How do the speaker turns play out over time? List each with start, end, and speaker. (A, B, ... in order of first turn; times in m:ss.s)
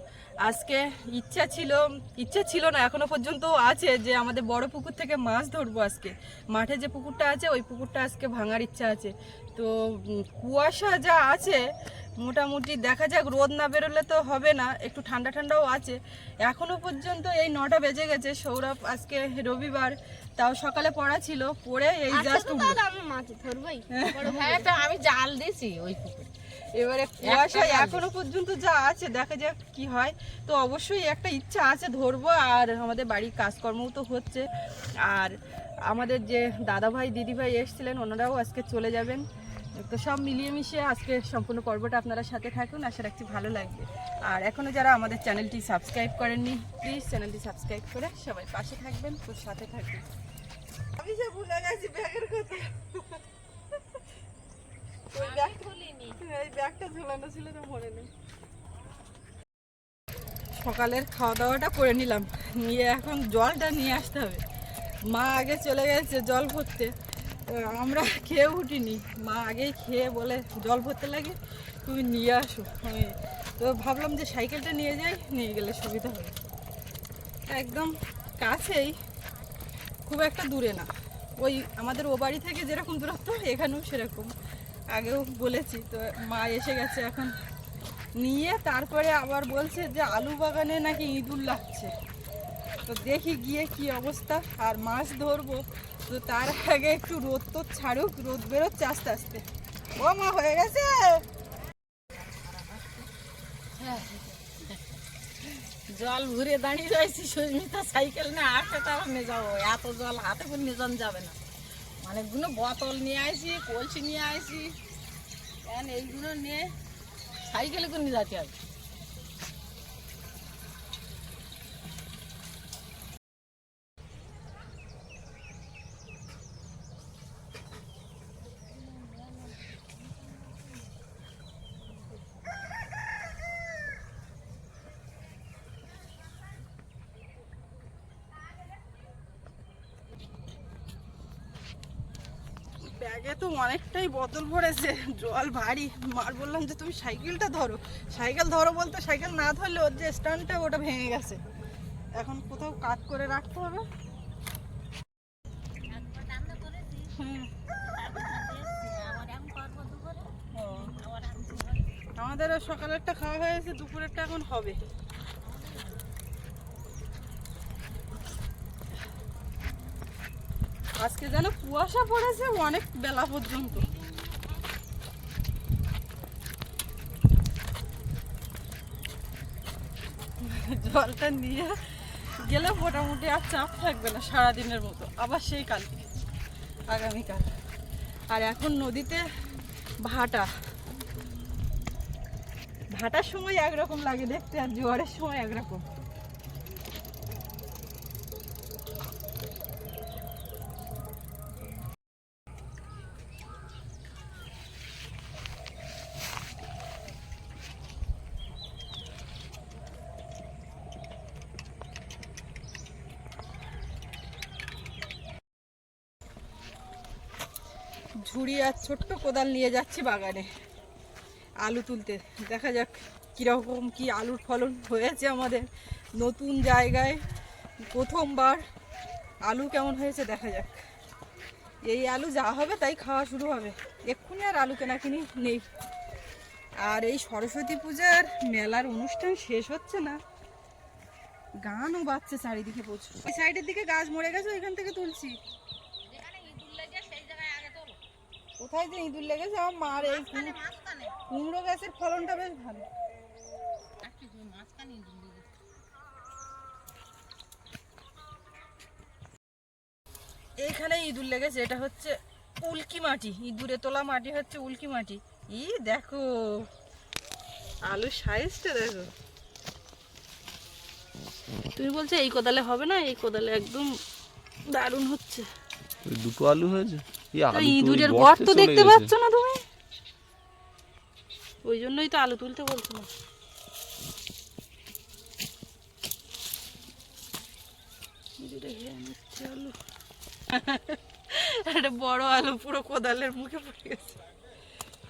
0:00.4-0:11.6 A
0:12.2-0:22.8 A
0:22.1-0:24.7 B
0:24.2-0:26.3 C
0:26.8-0:34.5 A
0:27.2-0:28.1 C
0:35.0-0:50.0 A
0:51.0-0:53.2 A
0:55.1-0:55.6 A
0:55.2-0:56.2 C
0:56.2-0:58.1 A
1:00.6-1:04.4 A
1:05.1-1:06.9 A
1:07.5-1:16.4 A
1:17.5-1:19.0 A
1:20.1-1:24.3 A
1:24.9-1:27.3 A
1:28.2-1:31.9 A
1:32.9-1:39.4 A
1:40.0-1:41.2 A
1:42.2-1:43.1 C
1:43.8-1:45.0 C
1:45.9-1:51.4 C
1:52.0-1:54.7 C
1:55.6-1:56.7 C
1:57.4-1:58.5 C
2:08.7-2:10.9 C
2:12.0-2:12.3 C
2:22.8-2:31.4 A
2:32.2-2:33.9 A
2:35.9-2:37.2 C
2:37.2-2:37.5 A
2:37.8-2:40.3 C
2:40.5-2:40.9 A
2:40.8-2:41.9 C
2:42.2-2:44.8 A
2:45.4-2:46.1 C
2:51.0-2:53.9 A
2:53.4-2:54.7 C
3:00.4-3:01.8 A
3:02.4-3:05.9 A
3:06.9-3:07.5 A
3:08.3-3:09.2 A
3:10.0-3:10.5 A
3:12.9-3:15.8 A
3:38.2-3:40.5 A
3:41.6-3:47.2 A
3:47.9-3:48.6 A
3:49.4-3:50.8 A
3:51.8-3:55.7 A
3:56.8-4:00.2 A
4:01.6-4:05.4 A
4:06.0-4:08.0 C
4:08.6-4:10.6 A
4:09.9-4:11.2 C
4:11.3-4:12.9 A
4:14.0-4:15.5 C
4:20.6-4:26.7 A
4:27.9-4:29.1 A
4:31.8-4:33.9 A
4:34.7-4:35.5 A
4:36.0-4:39.1 D
4:37.5-4:39.6 A
4:41.6-4:43.1 A
4:48.4-4:49.8 A
4:50.5-4:54.2 A